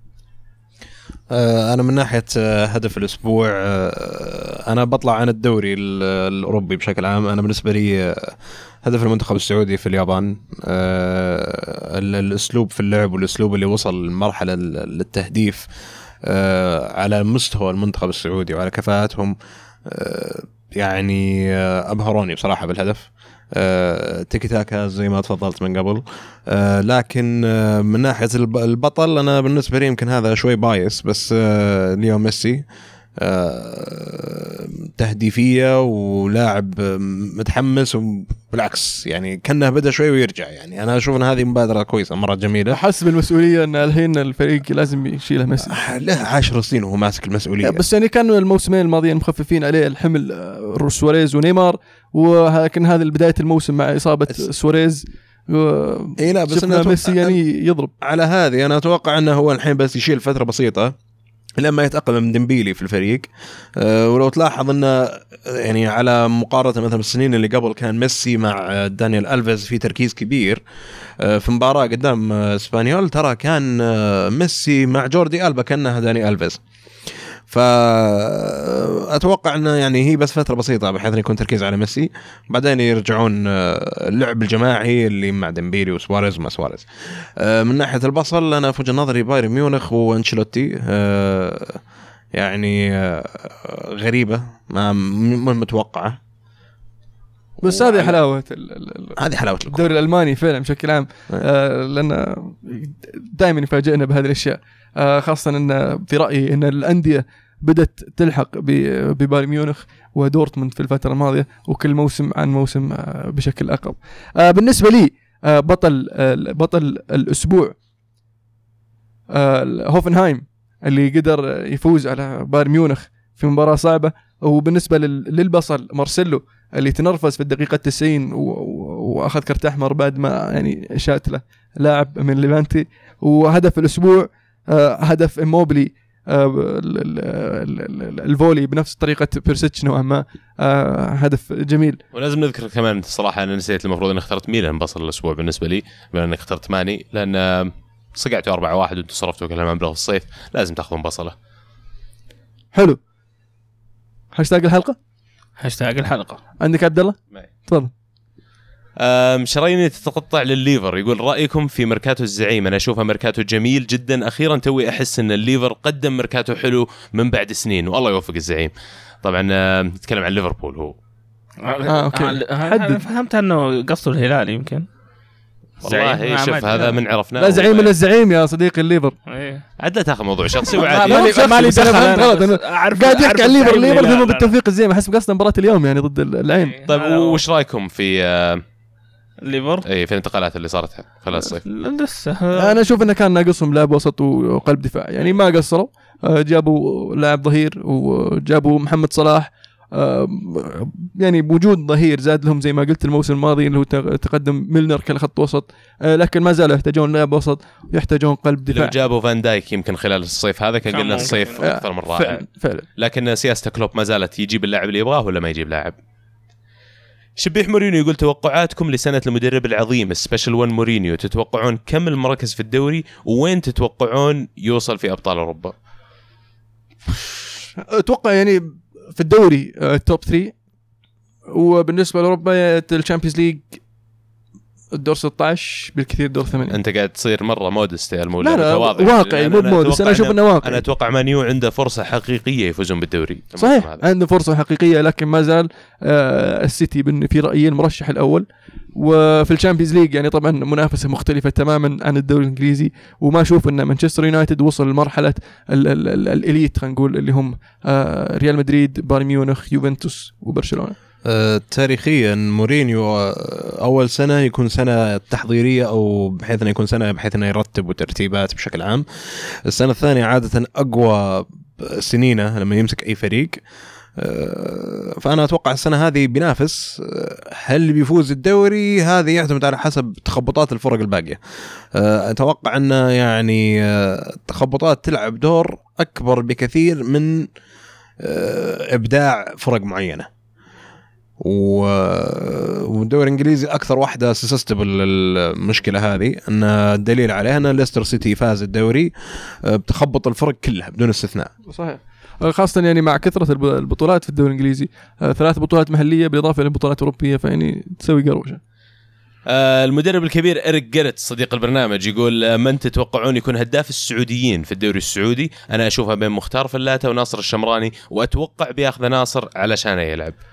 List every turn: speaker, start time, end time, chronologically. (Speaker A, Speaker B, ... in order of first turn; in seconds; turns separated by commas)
Speaker A: 1.3-15.7, Speaker A: 16.2-32.6, Speaker A: 33.2-42.8, Speaker B: 42.7-45.8, Speaker A: 45.7-47.8, Speaker B: 47.6-57.9, Speaker A: 56.2-57.4, Speaker A: 58.0-60.9, Speaker A: 61.6-70.6, Speaker A: 71.2-76.6, Speaker A: 77.5-91.8, Speaker A: 92.3-96.2, Speaker A: 97.6-98.2, Speaker B: 97.6-117.8, Speaker A: 99.2-99.8, Speaker B: 119.3-142.0, Speaker C: 142.1-151.3, Speaker B: 152.7-153.0, Speaker B: 154.3-154.9, Speaker D: 155.6-156.4, Speaker B: 156.6-157.9, Speaker C: 159.0-168.7, Speaker C: 169.2-170.9, Speaker D: 171.6-174.8, Speaker B: 171.9-173.0, Speaker D: 175.8-177.0, Speaker C: 175.8-177.9, Speaker B: 177.4-179.2, Speaker D: 179.3-179.6, Speaker C: 179.8-181.6, Speaker D: 180.7-184.5, Speaker B: 180.7-186.7, Speaker D: 186.6-187.4, Speaker C: 186.9-188.6, Speaker D: 189.4-189.8, Speaker C: 189.8-191.6, Speaker D: 191.4-192.8, Speaker B: 192.5-208.9, Speaker C: 208.7-212.4, Speaker D: 210.9-211.7, Speaker B: 211.6-212.8, Speaker C: 213.0-215.9, Speaker C: 217.4-225.7, Speaker B: 227.3-230.5, Speaker B: 231.5-233.8, Speaker B: 234.9-236.8, Speaker C: 236.7-244.0, Speaker B: 238.4-240.8, Speaker B: 243.6-260.9, Speaker A: 261.2-273.6, Speaker A: 274.2-281.4, Speaker A: 281.9-287.5, Speaker A: 288.2-290.3, Speaker A: 291.4-301.5, Speaker B: 301.7-308.6, Speaker C: 309.5-320.3